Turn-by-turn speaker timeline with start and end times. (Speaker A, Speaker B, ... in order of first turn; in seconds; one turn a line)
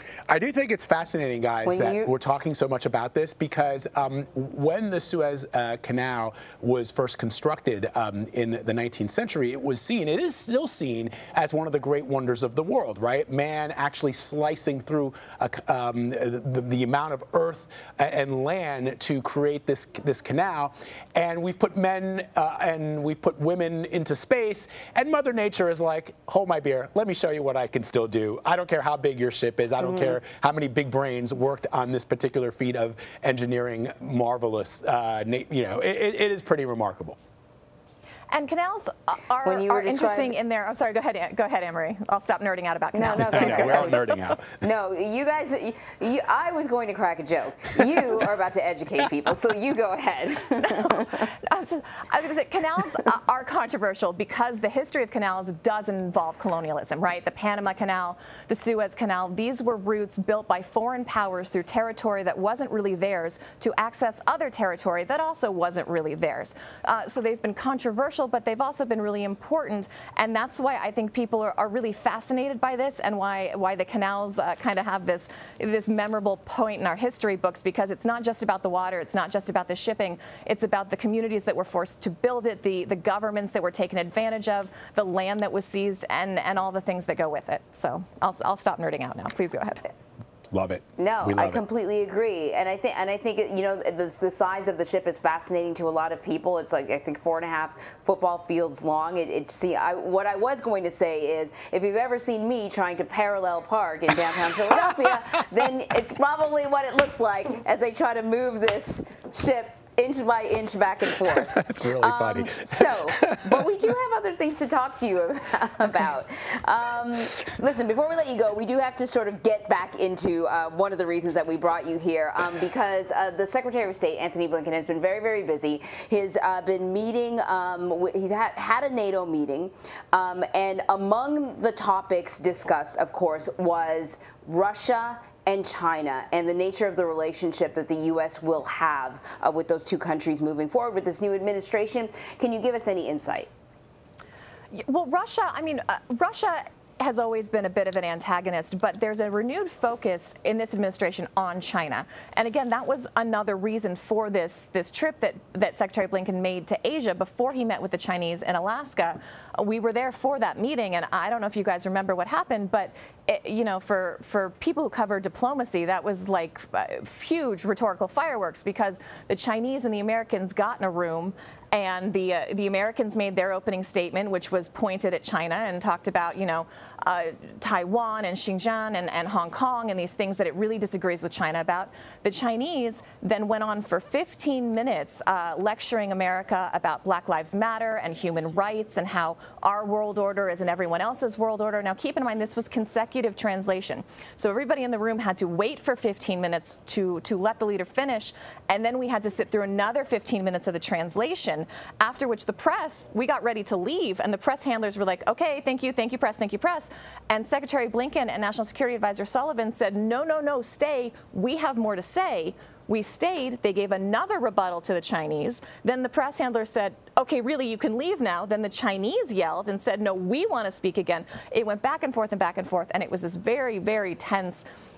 Speaker A: 0.3-37.2
Speaker B: 1.6-2.1
Speaker C: 38.3-44.2
Speaker B: 39.4-40.4
Speaker B: 42.9-44.1
Speaker A: 43.1-44.6
Speaker B: 44.6-51.1
Speaker C: 50.6-89.9
Speaker A: 90.5-91.6
Speaker B: 91.0-143.5
Speaker A: 111.5-113.6
Speaker C: 144.7-224.6